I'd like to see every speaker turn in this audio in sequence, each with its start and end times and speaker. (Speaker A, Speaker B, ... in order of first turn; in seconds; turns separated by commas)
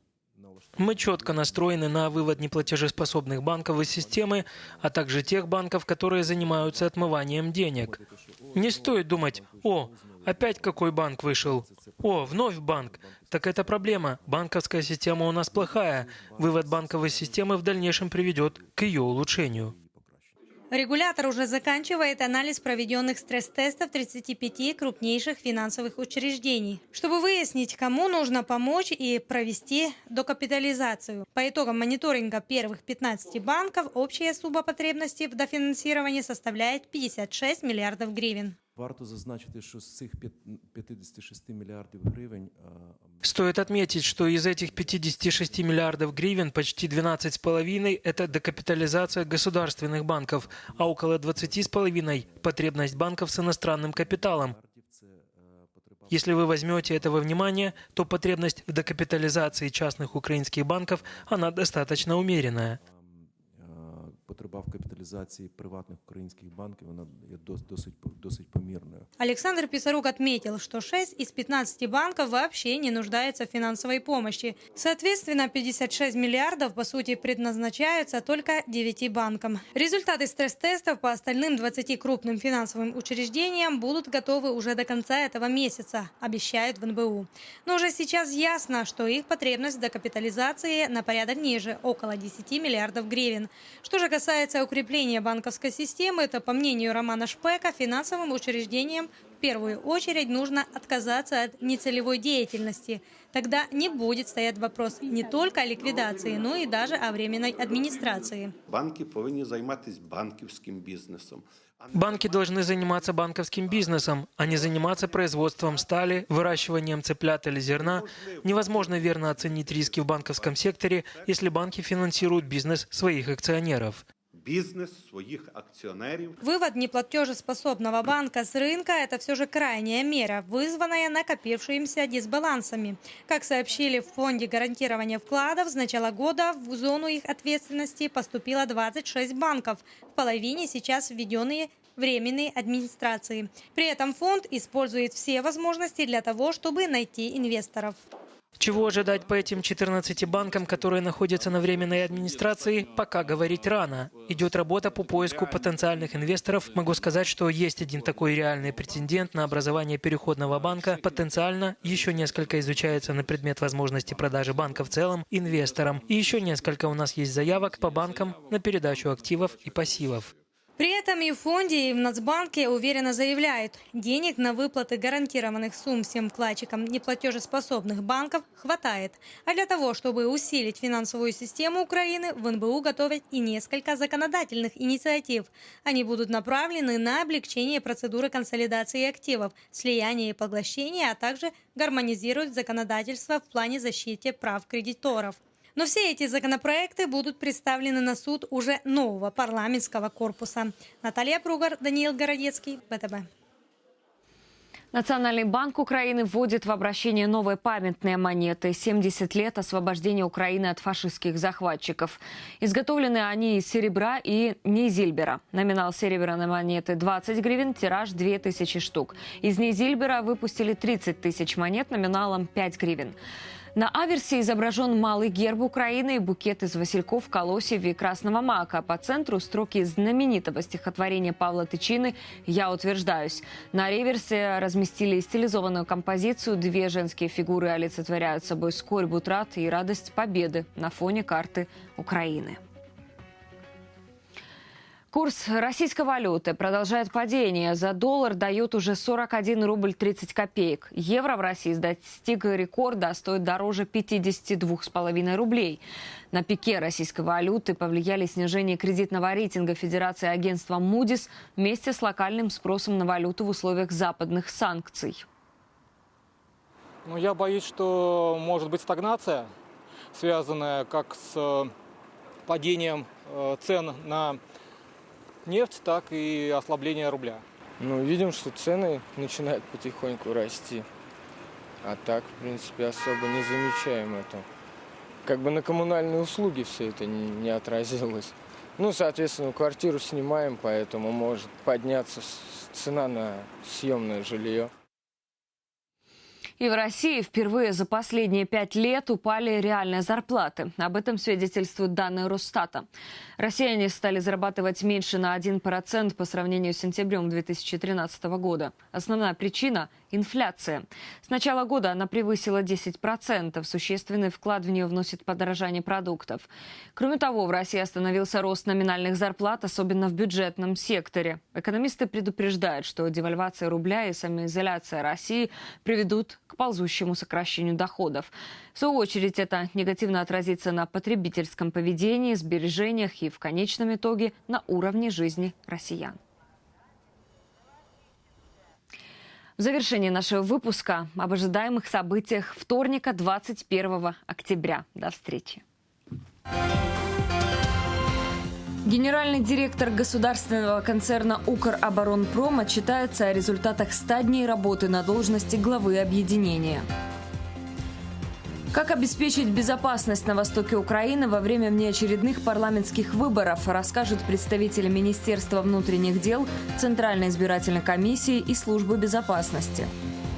Speaker A: 0.4-5.0, Speaker B: 0.8-8.0, Speaker A: 6.1-14.6, Speaker B: 8.5-19.7, Speaker A: 15.4-20.3, Speaker C: 20.7-38.6, Speaker A: 38.8-46.4, Speaker B: 43.2-54.6, Speaker A: 48.2-49.7, Speaker A: 50.4-52.9, Speaker A: 53.8-58.1, Speaker B: 56.1-62.8, Speaker A: 61.0-62.9, Speaker A: 63.6-69.1, Speaker C: 69.2-108.5, Speaker D: 108.7-111.4, Speaker B: 111.9-124.0, Speaker D: 124.4-126.4, Speaker C: 126.4-148.0, Speaker B: 148.6-170.3, Speaker C: 170.8-203.2, Speaker E: 204.9-223.2, Speaker E: 223.8-242.6, Speaker E: 245.1-265.2, Speaker F: 267.0-269.5, Speaker F: 270.1-271.7, Speaker F: 272.5-274.4, Speaker F: 275.4-277.4, Speaker G: 277.8-280.9, Speaker G: 281.8-284.5, Speaker G: 285.2-294.7, Speaker E: 296.6-302.9, Speaker E: 303.4-336.2, Speaker E: 339.6-345.6, Speaker E: 348.8-356.9, Speaker E: 358.7-369.9